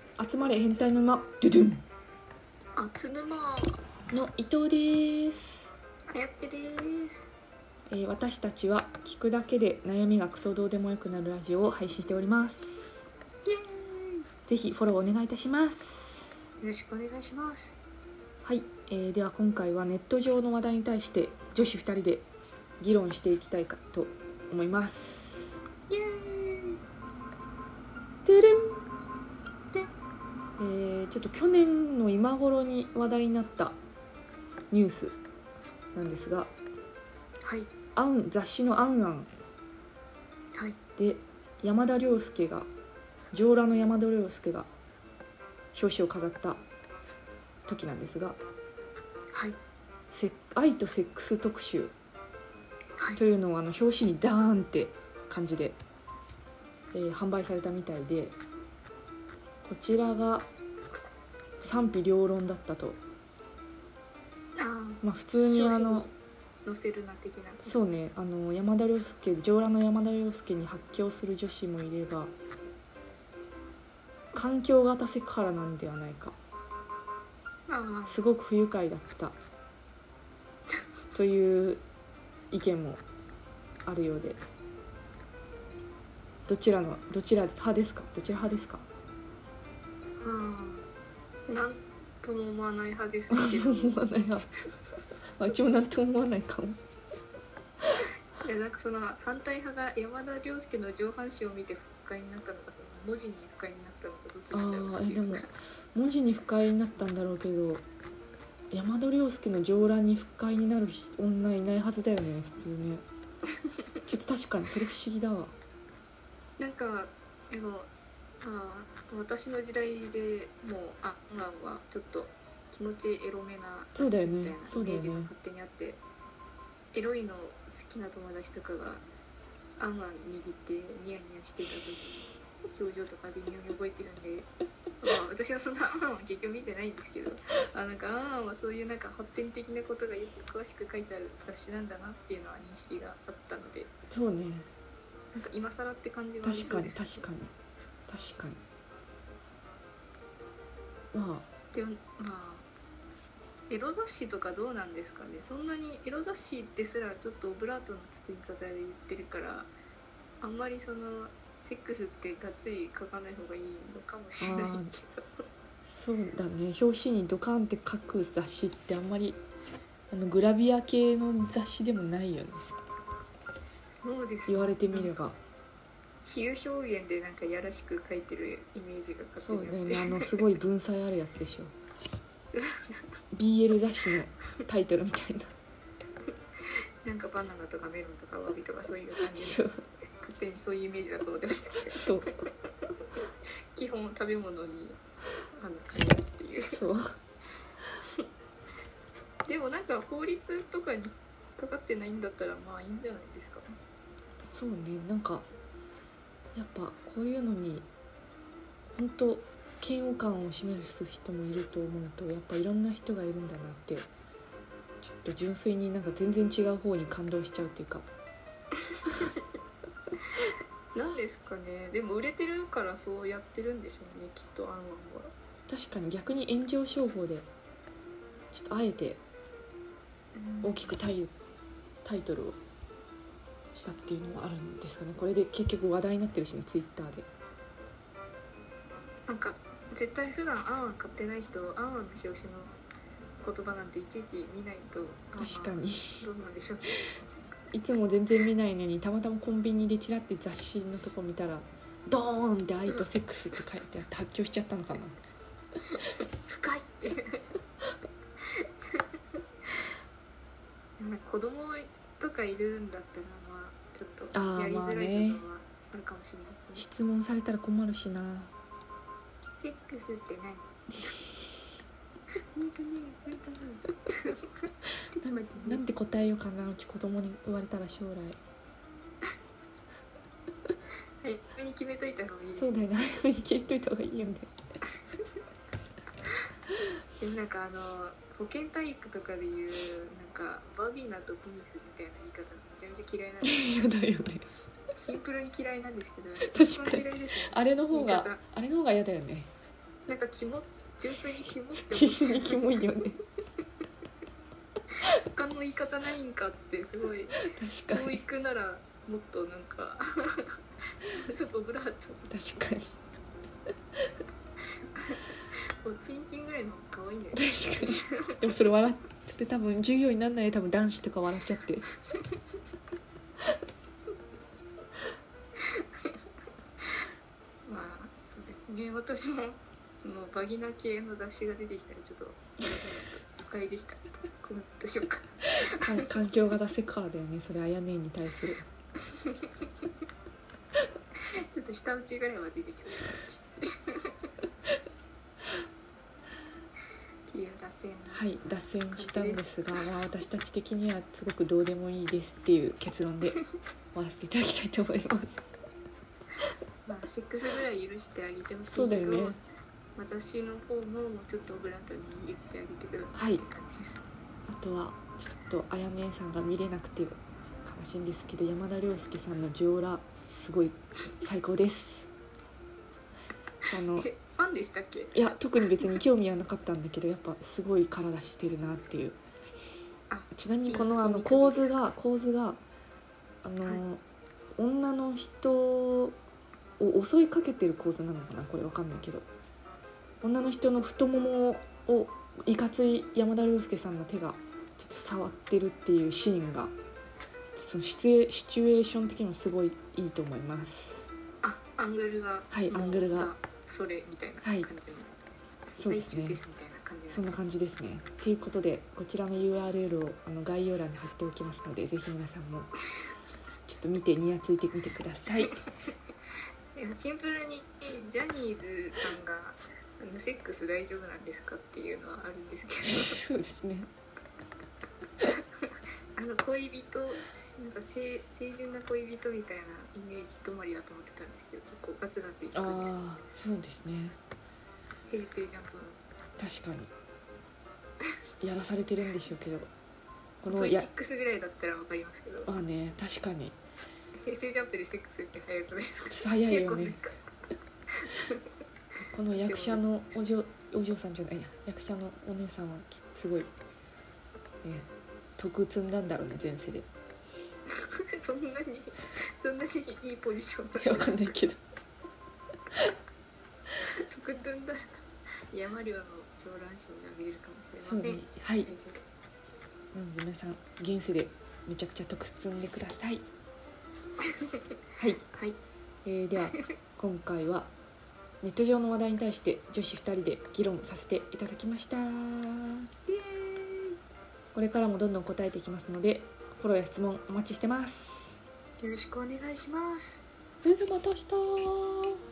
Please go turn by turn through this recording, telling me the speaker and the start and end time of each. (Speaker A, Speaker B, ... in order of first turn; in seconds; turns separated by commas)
Speaker A: 0.2-1.8, Speaker B: 2.8-3.8, Speaker A: 4.1-5.7, Speaker B: 6.1-7.3, Speaker A: 7.9-13.1, Speaker B: 13.4-14.2, Speaker A: 14.5-16.4, Speaker B: 16.6-17.8, Speaker A: 18.4-22.3, Speaker A: 22.8-25.6, Speaker B: 25.9-26.8, Speaker A: 28.2-28.8, Speaker A: 30.6-33.8, Speaker A: 34.7-35.2, Speaker A: 36.0-36.5, Speaker B: 37.4-37.7, Speaker A: 37.9-39.3, Speaker A: 41.0-42.7, Speaker A: 43.3-44.7, Speaker A: 45.7-46.6, Speaker A: 47.7-48.4, Speaker A: 50.1-51.9, Speaker A: 53.2-55.8, Speaker A: 56.9-58.4, Speaker A: 59.6-60.5, Speaker A: 61.6-63.0, Speaker B: 64.6-66.1, Speaker A: 65.0-66.1, Speaker B: 66.7-67.8, Speaker A: 67.6-72.3, Speaker A: 74.3-76.4, Speaker B: 77.7-78.2, Speaker A: 78.1-79.4, Speaker A: 81.1-81.8, Speaker A: 82.5-83.0, Speaker A: 83.8-84.4, Speaker A: 86.5-88.9, Speaker B: 90.2-90.9, Speaker B: 91.5-94.0, Speaker A: 93.3-94.5, Speaker A: 95.3-96.8, Speaker B: 98.4-105.5, Speaker A: 104.5-107.8, Speaker A: 108.7-113.0, Speaker B: 113.5-113.8, Speaker A: 114.1-115.5, Speaker B: 116.6-117.9, Speaker B: 118.4-126.0, Speaker A: 124.0-125.3, Speaker B: 126.9-129.0, Speaker B: 129.8-134.5, Speaker B: 135.0-143.9, Speaker A: 144.1-144.7, Speaker B: 145.3-147.3, Speaker A: 146.4-147.5, Speaker A: 148.1-148.6, Speaker A: 151.1-151.5, Speaker B: 151.7-152.7, Speaker B: 153.7-159.7, Speaker B: 160.4-165.4, Speaker A: 164.4-164.9, Speaker A: 165.8-169.4, Speaker A: 170.1-172.7, Speaker B: 174.0-175.3, Speaker A: 174.5-175.4, Speaker B: 176.2-180.3, Speaker A: 179.4-181.7, Speaker B: 182.5-183.1, Speaker A: 183.3-185.5, Speaker B: 187.0-189.6, Speaker A: 189.3-189.8, Speaker B: 190.2-192.1, Speaker A: 191.9-192.3, Speaker B: 193.8-195.0, Speaker B: 195.5-196.8, Speaker A: 196.7-197.1, Speaker B: 199.5-203.7, Speaker A: 204.5-205.5, Speaker A: 206.6-207.9, Speaker A: 208.9-214.1, Speaker A: 215.0-218.1, Speaker B: 218.8-219.4, Speaker B: 220.9-225.3, Speaker A: 225.7-227.5, Speaker A: 228.5-229.2, Speaker B: 230.3-230.9, Speaker A: 230.6-231.3, Speaker A: 232.0-232.6, Speaker A: 233.7-237.3, Speaker B: 239.3-242.8, Speaker B: 243.4-247.6, Speaker A: 245.4-246.3, Speaker A: 247.7-255.2, Speaker B: 255.9-257.5, Speaker B: 258.6-259.2, Speaker B: 261.0-266.9, Speaker A: 264.3-265.4, Speaker A: 266.8-268.5, Speaker B: 269.6-271.1, Speaker B: 272.5-275.9, Speaker A: 275.3-278.4, Speaker B: 281.2-283.2, Speaker A: 282.6-284.5, Speaker B: 284.9-285.4, Speaker B: 287.2-293.7, Speaker A: 293.4-294.5, Speaker B: 294.9-298.4, Speaker A: 296.4-299.5, Speaker B: 300.1-302.9, Speaker A: 301.9-303.2, Speaker B: 305.2-312.3, Speaker A: 307.4-308.2, Speaker A: 312.3-312.9, Speaker B: 315.8-318.6, Speaker A: 317.4-321.9, Speaker B: 325.6-326.2, Speaker B: 327.7-336.4, Speaker A: 335.7-338.7, Speaker B: 339.0-339.7, Speaker B: 341.3-344.3, Speaker B: 347.3-348.3, Speaker A: 348.1-353.4, Speaker B: 348.9-349.9, Speaker A: 353.9-355.4, Speaker B: 356.9-359.4, Speaker A: 358.7-359.4, Speaker B: 360.0-364.1, Speaker A: 363.1-363.4, Speaker A: 364.5-372.1, Speaker A: 373.7-374.1, Speaker B: 374.0-376.0, Speaker A: 375.1-379.2, Speaker B: 380.1-381.9, Speaker A: 380.3-382.6, Speaker A: 383.4-384.0, Speaker A: 384.6-386.2, Speaker A: 386.8-389.3, Speaker A: 390.2-396.7, Speaker A: 397.6-401.1, Speaker B: 401.4-405.2, Speaker A: 402.5-403.3, Speaker A: 404.4-404.7, Speaker B: 405.7-407.4, Speaker A: 405.8-406.4, Speaker A: 407.1-412.8, Speaker A: 413.7-415.6, Speaker B: 415.4-415.9, Speaker B: 416.8-423.2, Speaker A: 422.9-423.9, Speaker B: 425.2-432.9, Speaker A: 432.5-434.2, Speaker B: 435.1-436.0, Speaker A: 436.4-436.9, Speaker A: 438.4-439.7, Speaker A: 440.4-440.9, Speaker B: 440.5-442.5, Speaker A: 442.5-443.6, Speaker B: 444.2-447.2, Speaker A: 446.1-447.0, Speaker B: 448.0-448.5, Speaker A: 449.0-453.5, Speaker B: 449.3-449.8, Speaker A: 454.6-456.9, Speaker B: 457.7-461.4, Speaker A: 460.8-461.6, Speaker B: 464.0-465.0, Speaker B: 465.5-469.0, Speaker A: 467.8-468.7, Speaker A: 469.9-473.2, Speaker B: 474.2-474.6, Speaker A: 475.0-475.2, Speaker B: 475.3-475.6, Speaker A: 476.1-477.7, Speaker A: 478.4-482.9, Speaker B: 483.1-484.0, Speaker A: 484.5-488.4, Speaker B: 488.8-490.2, Speaker A: 490.6-492.2